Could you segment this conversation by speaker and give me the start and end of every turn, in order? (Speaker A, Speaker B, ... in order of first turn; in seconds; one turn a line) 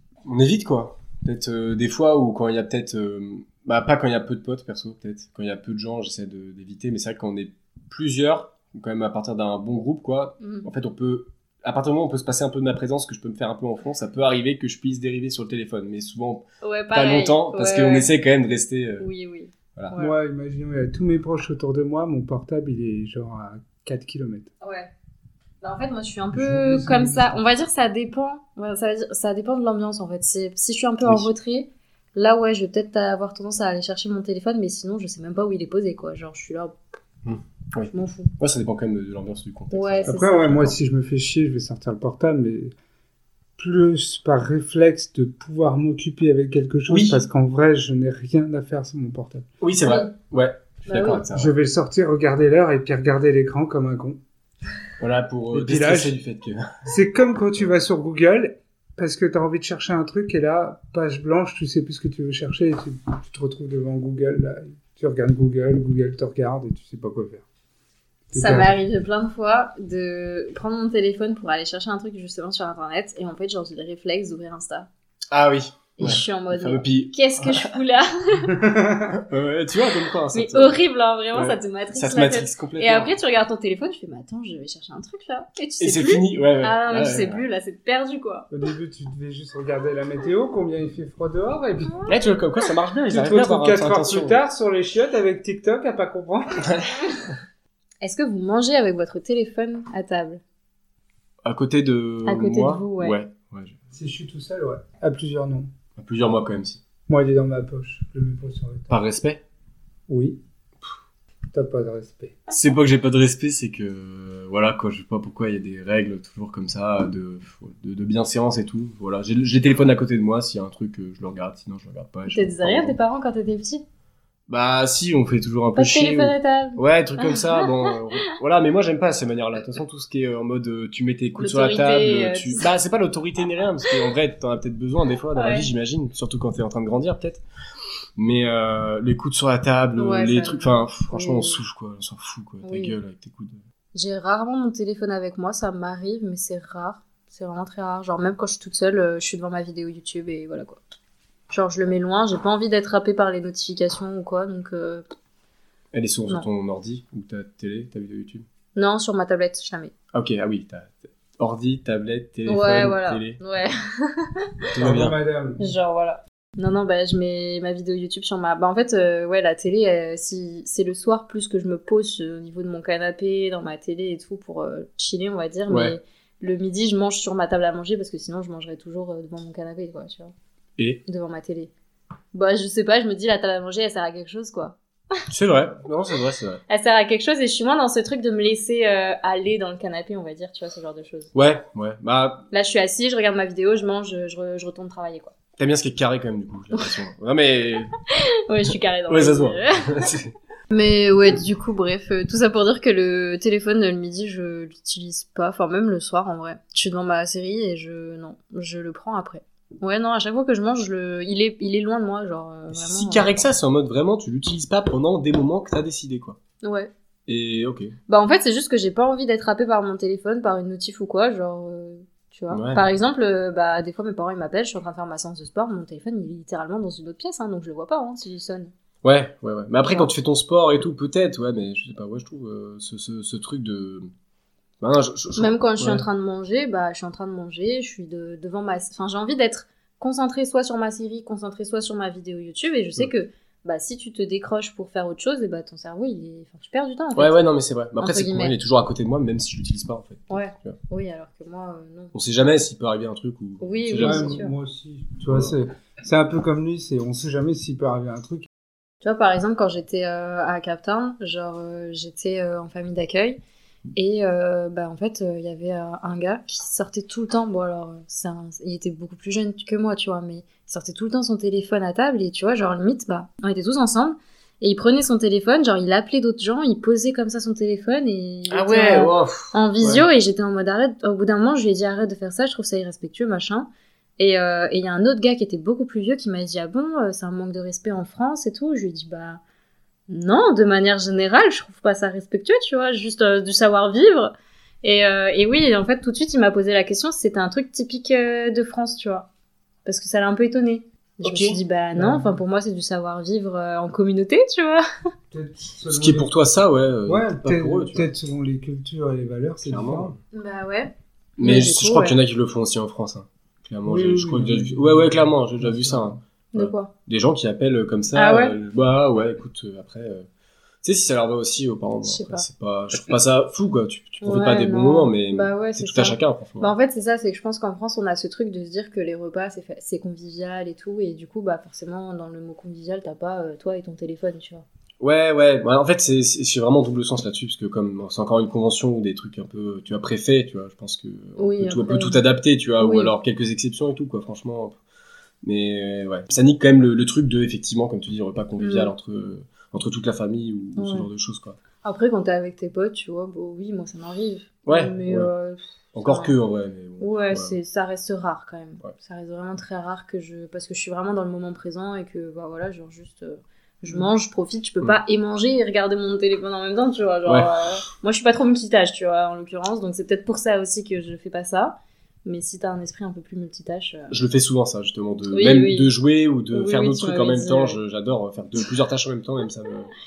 Speaker A: 0.2-19.1
Speaker B: 10.4-10.7
Speaker B: 16.6-18.1
Speaker B: 19.0-20.1
Speaker C: 19.9-24.5
Speaker B: 24.6-24.9
Speaker B: 25.6-36.8
Speaker C: 26.3-27.4
Speaker A: 37.2-40.8
Speaker B: 37.9-38.3
Speaker B: 39.7-40.5
Speaker C: 40.1-42.8
Speaker C: 43.6-49.5
Speaker A: 46.9-47.2
Speaker A: 49.6-51.5
Speaker B: 49.8-50.1
Speaker B: 50.9-51.2
Speaker C: 51.3-54.2
Speaker A: 55.0-56.9
Speaker C: 55.5-56.2
Speaker C: 56.9-67.5
Speaker C: 68.3-68.7
Speaker B: 68.3-74.9
Speaker A: 75.3-77.7
Speaker B: 76.0-78.5
Speaker C: 78.5-79.2
Speaker A: 79.1-80.8
Speaker B: 80.3-88.5
Speaker A: 81.3-83.1
Speaker A: 85.8-87.4
Speaker C: 88.5-92.0
Speaker A: 92.1-94.4
Speaker C: 93.1-96.7
Speaker A: 96.7-97.0
Speaker B: 98.0-100.4
Speaker A: 101.4-103.8
Speaker B: 102.2-103.2
Speaker C: 103.9-105.7
Speaker A: 106.0-106.8
Speaker C: 107.1-108.9
Speaker A: 108.9-109.4
Speaker C: 110.1-110.4
Speaker C: 111.5-112.4
Speaker A: 112.5-123.0
Speaker B: 122.3-123.8
Speaker A: 124.5-137.4
Speaker B: 125.8-128.0
Speaker B: 131.4-132.7
Speaker B: 135.3-135.7
Speaker A: 138.2-143.6
Speaker B: 140.0-141.6
Speaker B: 142.6-143.0
Speaker B: 143.9-150.8
Speaker B: 151.5-155.1
Speaker A: 155.9-158.4
Speaker B: 158.8-159.9
Speaker A: 160.1-163.4
Speaker B: 162.5-164.5
Speaker A: 164.8-165.2
Speaker C: 164.8-165.7
Speaker B: 165.6-180.3
Speaker A: 175.7-176.0
Speaker B: 181.1-181.7
Speaker B: 182.3-185.2
Speaker A: 185.3-186.6
Speaker B: 186.7-191.3
Speaker A: 191.3-192.5
Speaker B: 192.5-195.3
Speaker A: 195.6-197.9
Speaker B: 198.1-200.1
Speaker A: 199.1-200.3
Speaker B: 200.7-213.5
Speaker A: 212.7-216.4
Speaker B: 216.6-216.9
Speaker A: 217.3-218.0
Speaker B: 218.1-228.7
Speaker A: 222.5-222.9
Speaker A: 229.0-234.1
Speaker A: 234.8-236.1
Speaker B: 235.4-247.4
Speaker A: 247.2-250.8
Speaker B: 248.0-248.5
Speaker B: 250.3-252.1
Speaker A: 252.1-254.4
Speaker B: 253.6-254.5
Speaker C: 254.0-258.5
Speaker B: 259.0-263.4
Speaker B: 263.9-289.4
Speaker A: 278.5-280.1
Speaker B: 290.1-299.3
Speaker B: 299.9-304.8
Speaker A: 301.2-301.6
Speaker C: 302.0-302.4
Speaker C: 305.3-306.3
Speaker A: 305.9-308.1
Speaker C: 307.1-310.2
Speaker A: 309.6-310.2
Speaker B: 310.3-312.2
Speaker A: 311.4-320.3
Speaker C: 313.9-316.2
Speaker B: 316.5-316.9
Speaker B: 318.1-318.6
Speaker A: 320.8-326.7
Speaker B: 322.0-322.5
Speaker B: 324.2-334.6
Speaker A: 335.0-344.8
Speaker B: 341.4-342.2
Speaker B: 342.8-343.1
Speaker A: 345.4-351.6
Speaker B: 348.6-348.9
Speaker B: 350.8-351.1
Speaker B: 351.8-356.4
Speaker A: 354.7-355.3
Speaker A: 355.9-357.6
Speaker B: 357.0-374.2
Speaker A: 367.2-367.5
Speaker A: 374.1-379.9
Speaker B: 375.3-375.9
Speaker B: 376.5-377.8